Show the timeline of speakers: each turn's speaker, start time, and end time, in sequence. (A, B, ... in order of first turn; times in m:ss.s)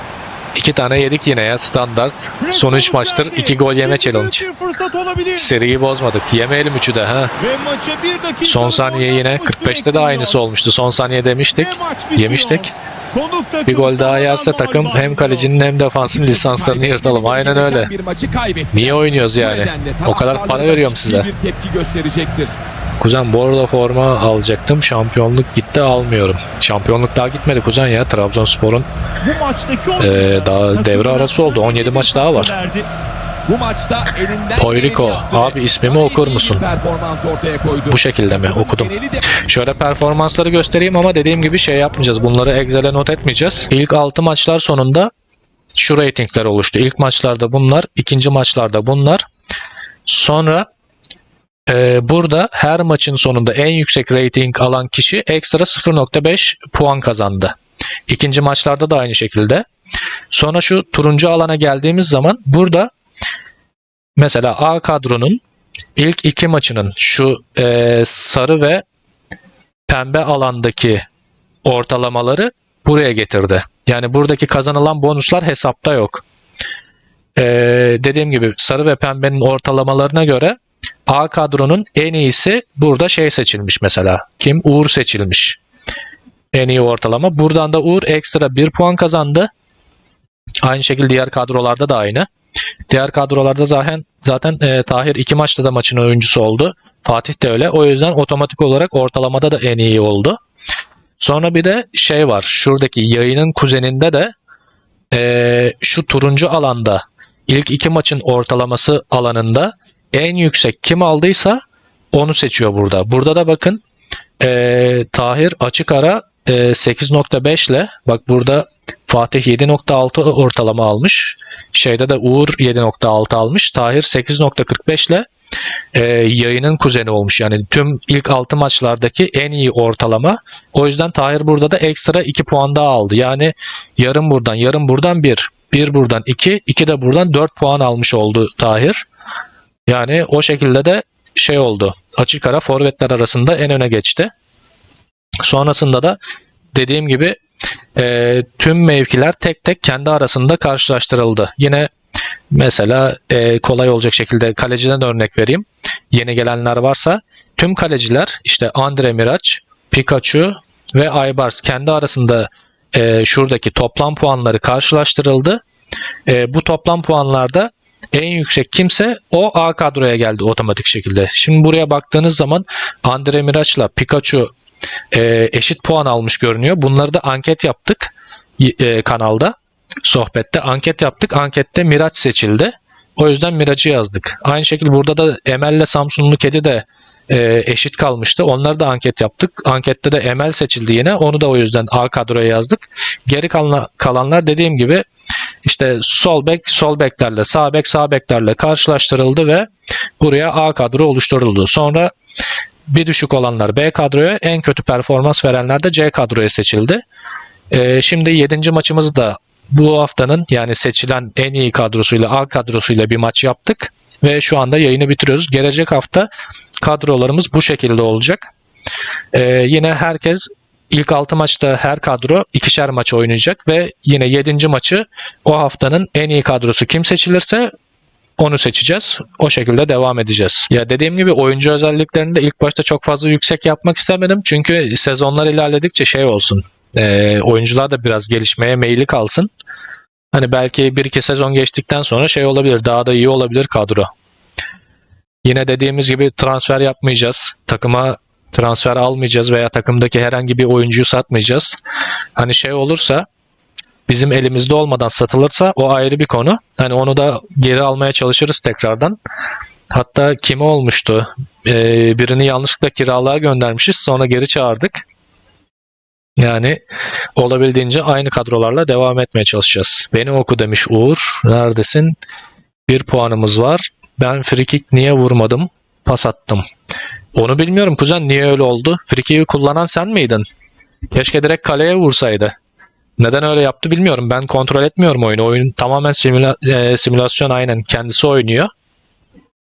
0:00.5-0:04.4 A
0:02.4-0:05.5 B
0:05.4-0:07.3 A
0:07.4-0:10.4 B
0:08.4-0:12.7 A
0:11.5-0:15.6 B
0:13.7-0:17.9 A
0:16.0-0:22.5 C
0:18.7-0:21.3 A
0:23.0-0:28.9 A
0:29.2-0:32.9 B
0:30.0-0:32.5 A
0:33.5-0:39.4 C
0:34.6-0:36.6 A
0:37.9-0:45.1 A
0:45.7-0:49.2 A
0:50.0-0:50.7 A
0:51.7-0:57.5 A
0:58.1-0:59.6 A
1:00.3-1:02.9 A
1:04.2-1:05.4 A
1:06.0-1:08.8 A
1:09.9-1:11.0 A
1:11.6-1:16.2 A
1:17.4-1:25.6 A
1:26.5-1:29.5 A
1:30.6-1:32.3 A
1:32.9-1:40.4 A
1:41.2-1:44.3 A
1:45.1-1:51.6 A
1:52.1-1:53.8 A
1:54.4-2:05.2 A
2:05.9-2:19.0 A
2:19.9-2:24.3 A
2:25.4-2:26.2 A
2:26.7-2:27.4 A
2:28.0-2:31.9 A
2:32.5-2:45.6 A
2:46.3-2:54.5 A
2:55.1-3:15.0 A
3:15.6-3:19.7 A
3:20.2-3:22.1 A
3:22.9-3:27.0 A
3:27.7-3:36.3 A
3:36.8-3:38.5 A
3:39.3-3:47.7 A
3:48.4-3:59.5 A
4:00.3-4:04.1 A
4:05.4-4:11.8 A
4:12.4-4:13.2 A
4:14.1-4:19.2 A
4:19.9-4:25.0 A
4:26.4-4:26.8 A
4:27.4-4:32.2 A
4:32.9-4:36.6 A
4:37.3-4:40.4 A
4:41.1-4:42.5 A
4:43.2-4:48.7 A